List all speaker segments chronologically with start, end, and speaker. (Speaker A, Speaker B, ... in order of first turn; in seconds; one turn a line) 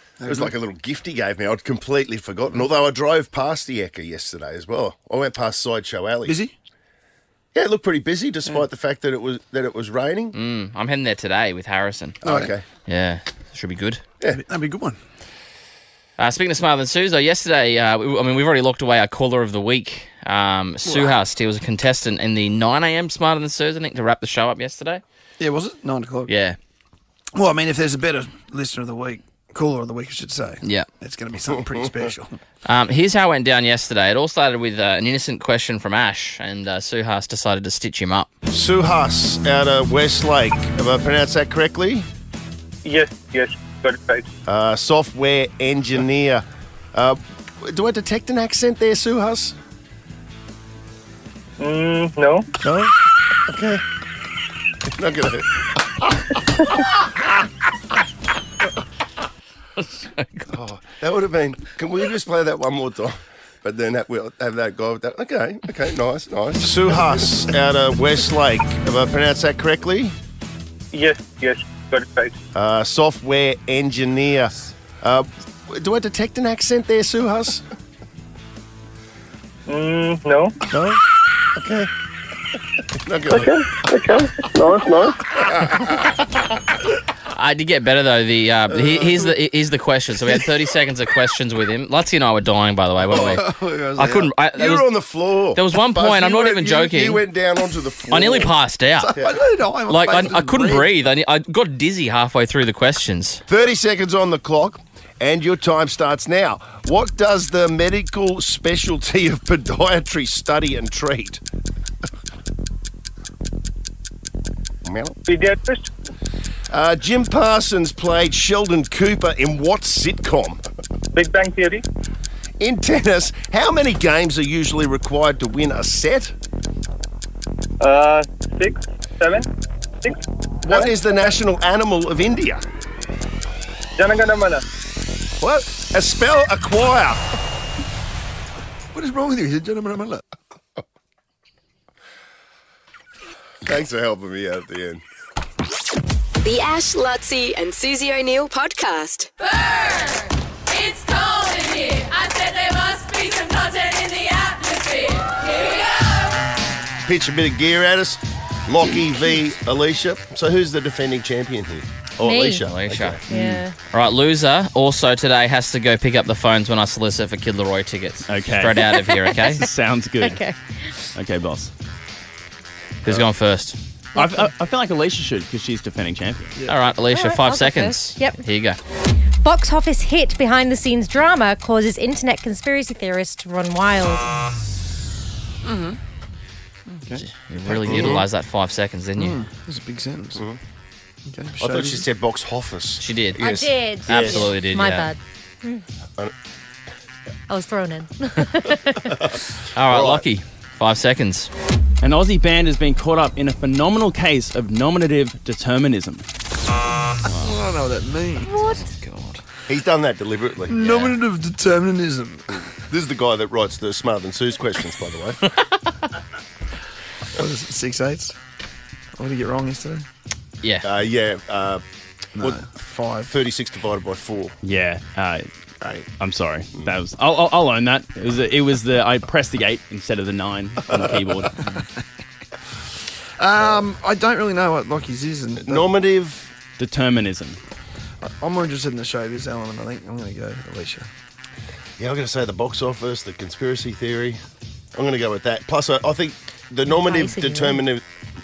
Speaker A: 0.2-0.5
Speaker B: 0.2-6.3
Speaker A: 6.2-6.5
Speaker B: 7.5-10.3
Speaker C: 10.3-12.2
Speaker B: 12.2-12.6
Speaker A: 12.2-12.5
Speaker C: 12.8-14.0
Speaker A: 14.3-15.0
Speaker C: 16.2-25.0
Speaker A: 20.8-21.2
Speaker A: 25.4-26.3
Speaker C: 26.3-26.6
Speaker A: 27.3-32.4
Speaker C: 32.6-38.3
Speaker B: 38.5-42.0
Speaker D: 42.8-44.2
Speaker B: 44.5-49.5
Speaker D: 51.6-52.5
Speaker B: 52.6-52.9
Speaker B: 53.4-53.8
Speaker B: 54.9-56.1
Speaker C: 59.8-60.5
Speaker B: 60.5-70.1
Speaker D: 70.9-72.3
Speaker B: 72.5-77.6
Speaker D: 79.7-80.5
Speaker B: 80.7-81.0
Speaker B: 81.5-81.9
Speaker B: 83.0-83.6
Speaker D: 83.3-85.2
Speaker C: 87.3-94.9
Speaker A: 93.1-94.3
Speaker B: 93.1-93.4
Speaker B: 94.5-98.5
Speaker C: 95.5-97.2
Speaker A: 98.1-98.4
Speaker C: 98.1-99.1
Speaker A: 99.0-100.9
Speaker C: 99.9-103.4
Speaker B: 103.5-111.4
Speaker B: 114.8-115.2
Speaker D: 115.2-115.8
Speaker B: 116.7-120.6
Speaker D: 121.1-121.8
Speaker B: 122.6-126.3
Speaker D: 127.8-129.5
Speaker B: 130.6-132.6
Speaker D: 134.0-134.6
Speaker B: 135.4-137.2
Speaker A: 138.9-140.2
Speaker B: 143.7-145.0
Speaker E: 146.4-149.3
Speaker F: 150.7-155.8
Speaker B: 157.0-163.2
Speaker G: 162.2-162.7
Speaker C: 162.7-169.6
Speaker G: 163.3-163.7
Speaker H: 168.3-170.5
Speaker G: 170.2-170.9
Speaker H: 171.1-171.7
Speaker C: 173.0-173.8
Speaker H: 174.1-176.5
Speaker G: 174.1-174.5
Speaker A: 176.6-176.8
Speaker C: 176.7-178.8
Speaker G: 177.1-178.4
Speaker G: 179.4-184.3
Speaker A: 185.6-186.0
Speaker A: 186.9-188.2
Speaker C: 187.4-189.4
Speaker B: 187.9-188.2
Speaker A: 189.2-190.4
Speaker A: 191.2-192.0
Speaker B: 191.6-194.5
Speaker C: 193.0-195.1
Speaker G: 193.4-195.8
Speaker G: 197.5-199.1
Speaker C: 199.7-201.5
Speaker B: 199.9-200.2
Speaker H: 202.0-206.3
Speaker A: 207.3-208.5
Speaker C: 208.6-209.4
Speaker B: 209.7-210.7
Speaker A: 210.7-212.7
Speaker C: 210.8-211.1
Speaker B: 212.9-215.4
Speaker A: 217.3-218.3
Speaker A: 219.2-220.1
Speaker B: 220.8-221.8
Speaker A: 222.3-223.3
Speaker B: 222.4-222.7
Speaker B: 223.2-224.5
Speaker H: 224.6-231.6
Speaker A: 233.4-235.8
Speaker B: 235.7-236.5
Speaker H: 236.8-237.6
Speaker A: 238.2-241.1
Speaker B: 242.0-244.4
Speaker B: 244.9-248.0
Speaker G: 246.9-247.8